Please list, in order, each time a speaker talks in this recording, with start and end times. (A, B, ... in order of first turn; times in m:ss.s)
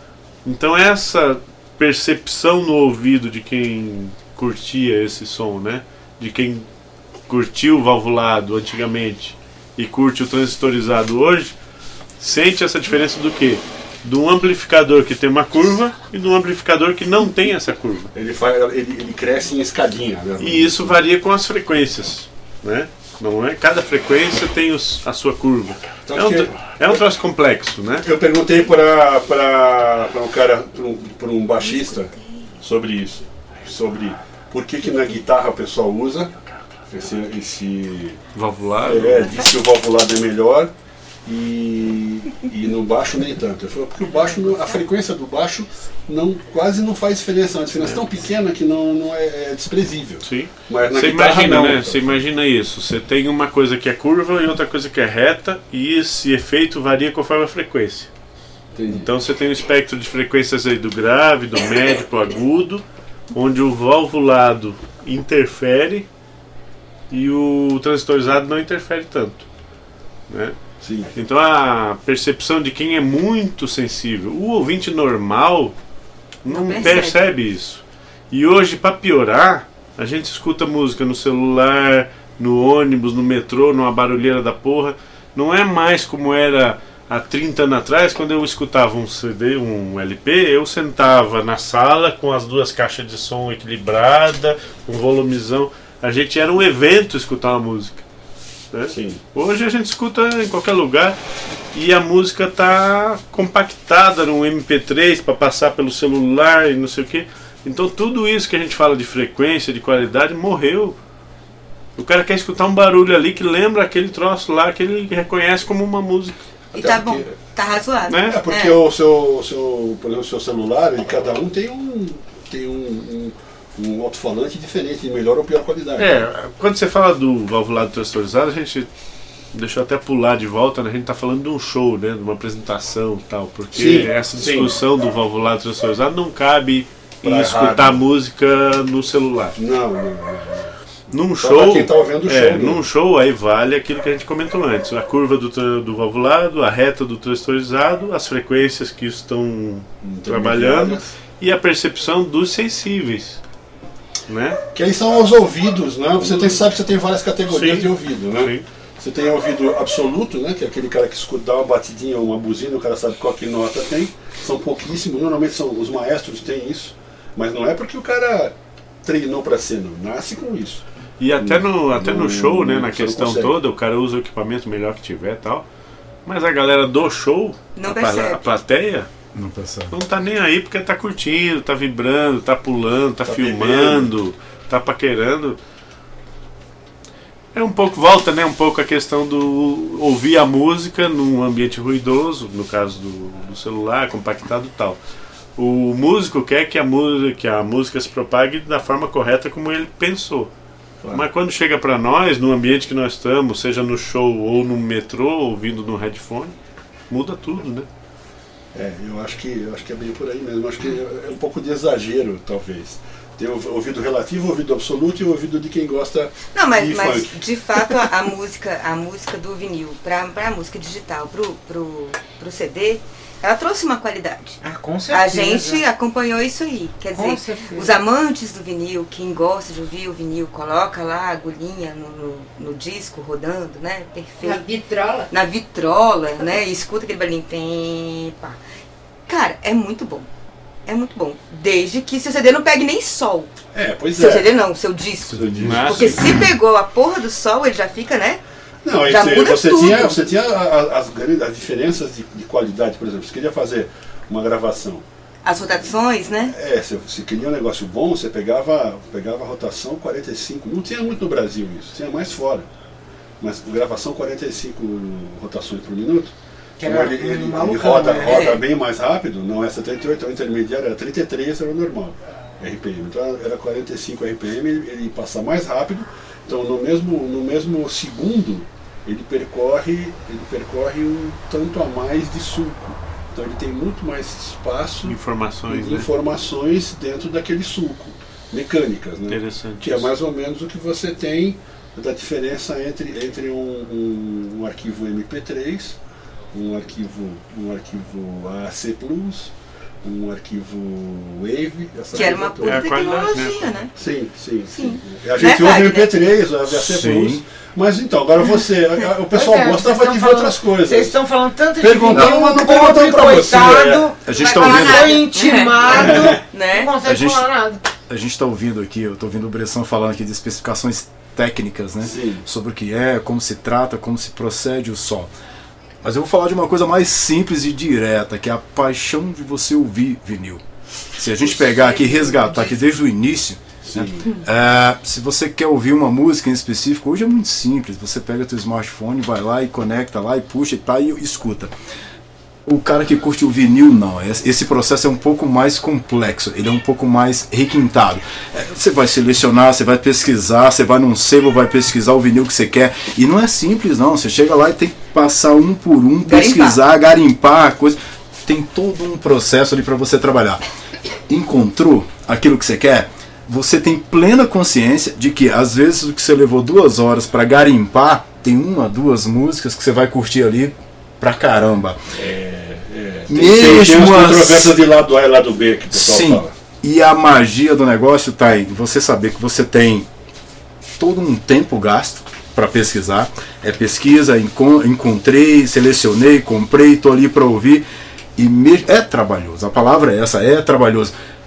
0:00.4-0:06.7 A
0:07.3-0:11.5 A
0:12.2-0:18.1 A
0:18.2-0:21.0 B
0:20.4-0:28.0 A
0:26.1-0:26.5 B
0:28.0-0:36.3 B
0:31.6-0:31.9 C
0:36.9-0:38.2 B
0:38.4-0:39.4 A
0:38.8-0:40.7 B
0:41.2-0:52.2 B
0:50.2-0:58.1 A
0:58.7-0:59.1 B
0:58.9-1:06.1 A
1:07.1-1:09.4 A
1:10.3-1:10.6 A
1:10.8-1:11.1 B
1:11.1-1:15.7 A
1:16.4-1:38.0 A
1:16.5-1:17.2 C
1:38.7-1:41.2 A
1:38.9-1:39.2 B
1:41.7-1:51.0 A
1:52.0-1:56.4 A
1:56.7-1:57.4 B
1:56.8-1:58.8 C
1:58.1-1:58.4 A
1:58.2-2:06.2 B
2:06.0-2:08.9 A
2:09.5-2:19.6 A
2:13.7-2:14.8 B
2:17.2-2:18.0 B
2:19.6-2:20.7 B
2:21.1-2:33.4 A
2:21.4-2:22.8 B
2:30.0-2:31.1 B
2:34.3-2:34.6 A
2:34.7-2:48.5 B
2:37.5-2:38.6 A
2:49.0-2:50.8 B
2:51.2-2:55.6 A
2:51.4-2:53.6 B
2:56.3-2:59.1 A
2:57.8-2:58.4 C
2:59.4-2:59.9 D
2:59.9-3:05.6 A
3:03.2-3:04.1 B
3:07.5-3:15.0 A
3:15.6-3:20.5 A
3:21.1-3:26.5 A
3:27.1-3:27.9 A
3:28.7-3:37.4 B
3:36.5-3:44.6 C
3:44.6-3:45.8 E
3:45.1-3:54.6 C
3:47.1-3:47.9 E
3:54.4-3:55.3 F
3:55.3-3:58.6 C
3:59.3-4:00.3 C
4:00.9-4:03.5 C
4:03.7-4:04.5 B
4:04.1-4:08.4 C
4:05.3-4:06.4 B
4:05.6-4:06.2 A
4:08.8-4:15.0 B
4:09.0-4:10.2 C
4:15.4-4:16.5 C
4:16.5-4:22.7 B
4:23.4-4:45.2 B
4:26.8-4:28.4 E
4:28.3-4:28.6 C
4:45.1-4:46.1 A
4:45.7-4:56.0 B
4:49.3-4:50.1 A
4:56.5-4:59.5 B
5:00.0-5:02.9 B
5:02.1-5:03.9 C
5:02.6-5:03.7 A
5:04.0-5:11.1 B
5:04.7-5:06.1 C
5:06.7-5:07.4 D
5:09.3-5:17.8 E
5:11.8-5:14.2 B
5:14.2-5:15.2 D
5:14.3-5:15.2 F
5:14.4-5:16.9 C
5:15.8-5:16.4 B
5:17.0-5:17.4 D
5:18.1-5:25.3 D
5:22.0-5:22.4 B
5:26.0-5:30.6 D
5:31.2-5:41.7 D
5:31.8-5:32.6 F
5:33.8-5:34.3 B
5:42.7-6:00.6 D
5:56.3-5:56.8 C
6:01.3-6:12.0 D
6:12.2-6:16.5 B
6:13.3-6:14.8 D
6:15.9-6:20.1 D
6:21.0-6:27.8 D
6:28.4-6:31.1 D